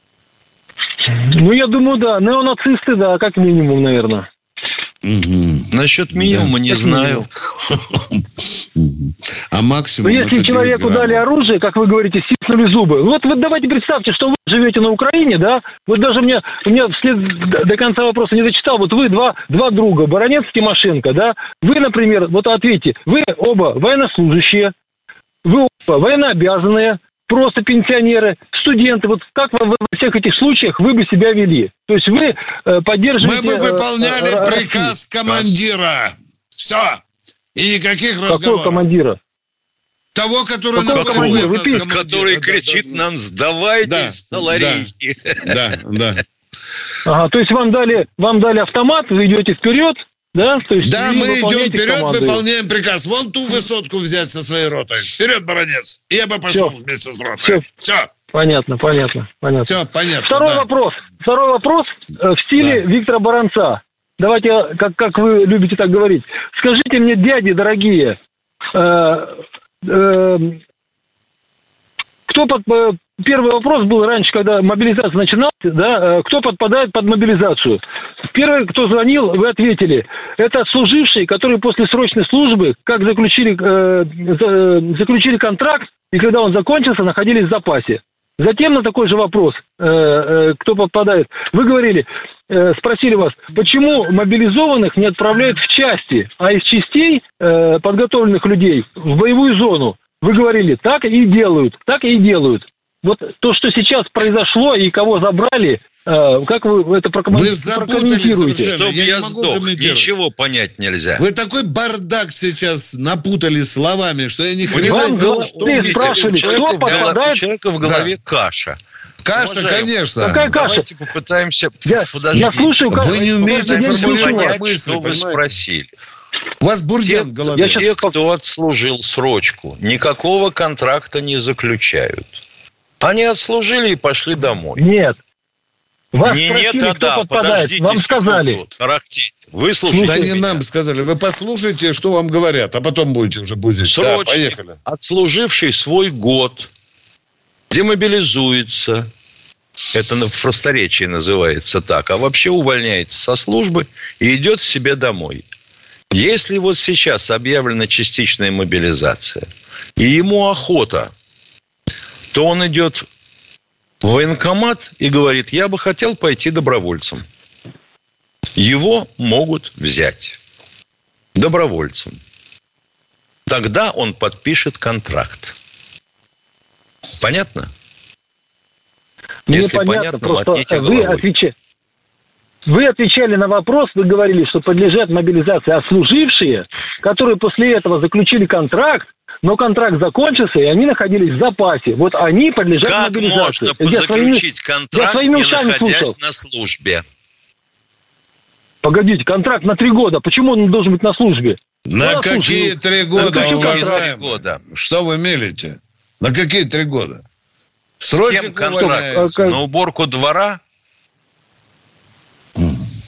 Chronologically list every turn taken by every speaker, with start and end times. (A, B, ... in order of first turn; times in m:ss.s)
0:01.1-0:04.3 A
0:05.0-0:06.5 B
0:05.7-0:07.2 C
0:06.7-0:07.2 A
0:07.6-0:11.2 B
0:10.0-0:24.7 A
0:25.4-0:34.9 A
0:33.2-0:37.0 B
0:35.2-0:35.5 C
0:37.5-0:38.8 B
0:38.3-0:39.2 A
0:40.1-0:43.0 B
0:40.7-0:41.8 A
0:40.9-0:45.5 C
0:43.8-0:44.9 B
0:45.4-0:46.2 B
0:47.0-0:52.4 A
0:50.8-0:58.1 B
0:58.3-1:08.2 A
0:59.6-1:00.7 B
1:02.6-1:02.8 B
1:08.7-1:10.6 A
1:12.3-1:17.8 A
1:18.3-1:48.7 A
1:47.3-1:50.1 B
1:48.6-1:51.2 C
1:51.2-1:57.1 B
1:54.7-1:57.4 A
1:54.7-1:58.8 C
1:57.8-1:58.1 B
1:59.2-2:00.6 B
1:59.3-1:59.9 C
2:00.2-2:00.9 A
2:00.5-2:05.9 C
2:01.8-2:04.6 A
2:02.9-2:05.5 B
2:06.6-2:07.8 B
2:07.0-2:12.4 C
2:07.5-2:07.9 A
2:13.0-2:14.8 C
2:14.8-2:15.2 A
2:16.1-2:18.6 A
2:16.2-2:20.6 C
2:19.9-2:20.3 A
2:20.0-2:24.8 B
2:23.8-2:26.7 C
2:27.7-2:29.1 C
2:29.9-2:35.4 C
2:36.1-2:39.4 C
2:40.0-2:41.1 C
2:42.3-2:43.0 C
2:44.0-2:47.2 C
2:48.6-2:50.4 C
2:51.3-2:52.2 C
2:53.5-2:55.6 C
2:57.2-2:57.7 C
2:59.5-3:01.5 A
2:59.5-3:01.2 C
3:02.7-3:16.1 A
3:12.8-3:17.0 C
3:18.8-3:24.0 A
3:21.9-3:27.2 B
3:23.2-3:24.6 C
3:28.0-3:29.5 B
3:28.1-3:30.6 C
3:29.0-3:29.6 A
3:32.6-3:32.9 B